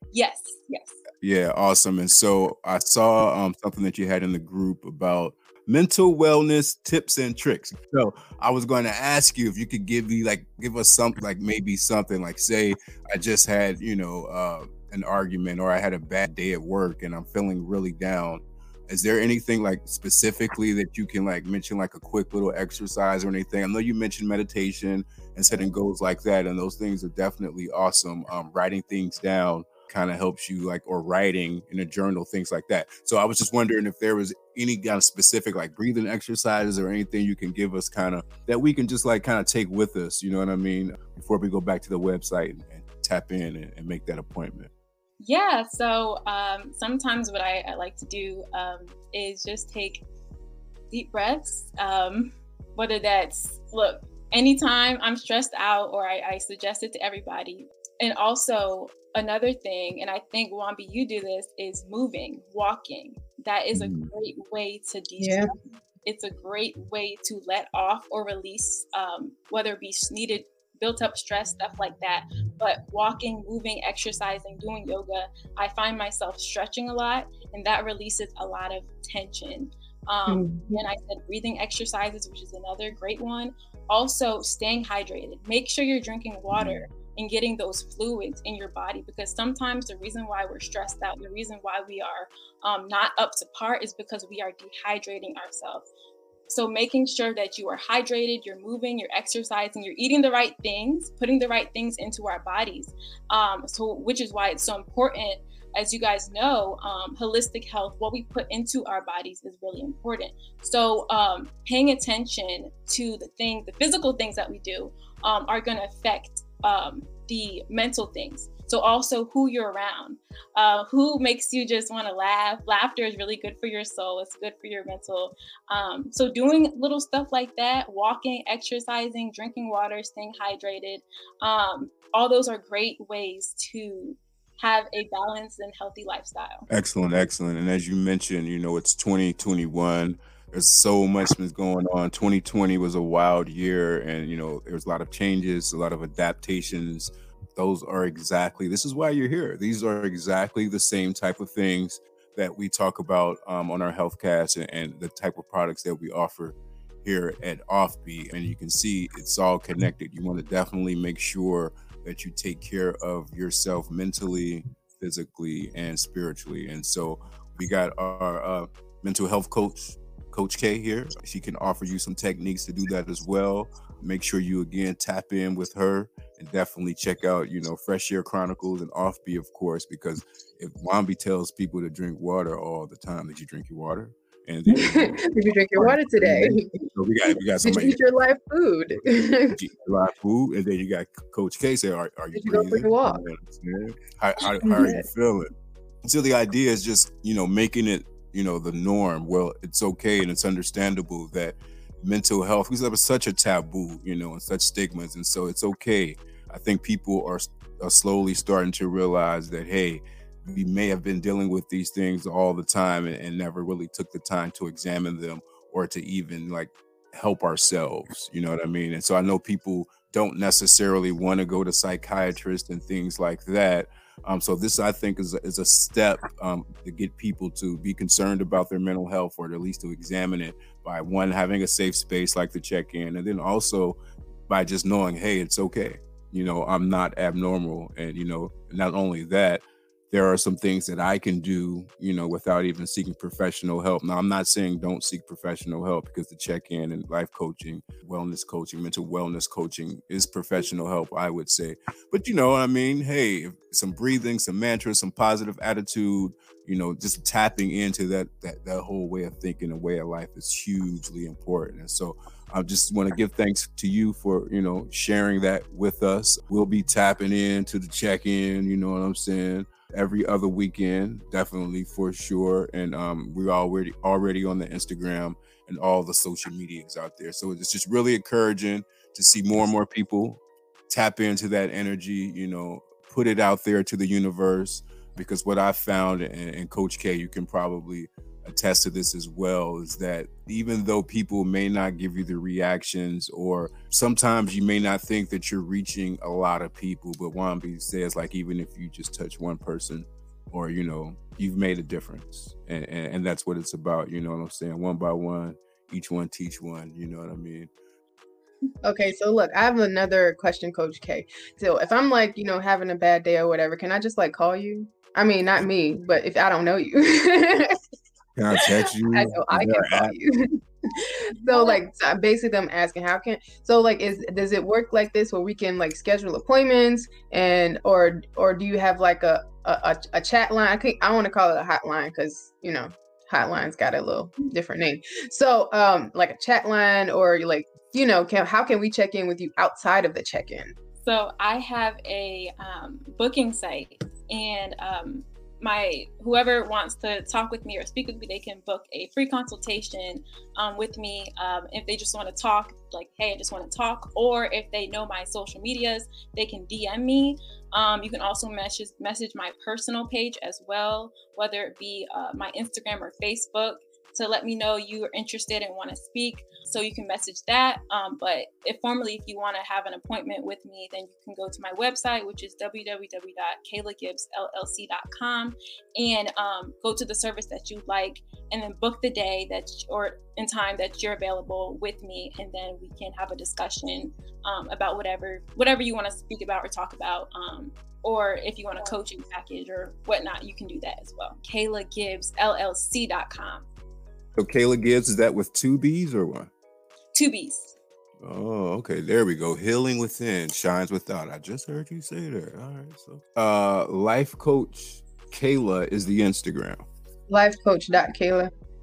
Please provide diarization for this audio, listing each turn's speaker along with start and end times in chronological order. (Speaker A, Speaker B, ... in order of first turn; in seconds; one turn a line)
Speaker A: 0.1-1.0
Speaker B: 1.2-44.7
Speaker A: 45.2-50.0
Speaker A: 50.9-65.5
Speaker B: 63.7-64.1
Speaker C: 65.2-65.5
Speaker A: 66.0-95.8
Speaker C: 80.3-80.8
Speaker B: 86.5-86.8
Speaker A: 96.5-136.7
Speaker B: 136.7-188.0
Speaker C: 184.7-186.9
Speaker C: 187.6-189.6
Speaker B: 189.5-195.5
Speaker C: 192.3-193.2
Speaker C: 194.6-195.1
Speaker B: 196.0-307.7
Speaker C: 308.8-317.8
Speaker B: 318.4-320.1
Speaker C: 318.6-340.8
Speaker A: 321.5-321.8
Speaker A: 341.0-393.6
Speaker B: 394.4-396.5
Speaker A: 397.1-397.7
Speaker B: 398.2-406.8
Speaker C: 407.3-408.5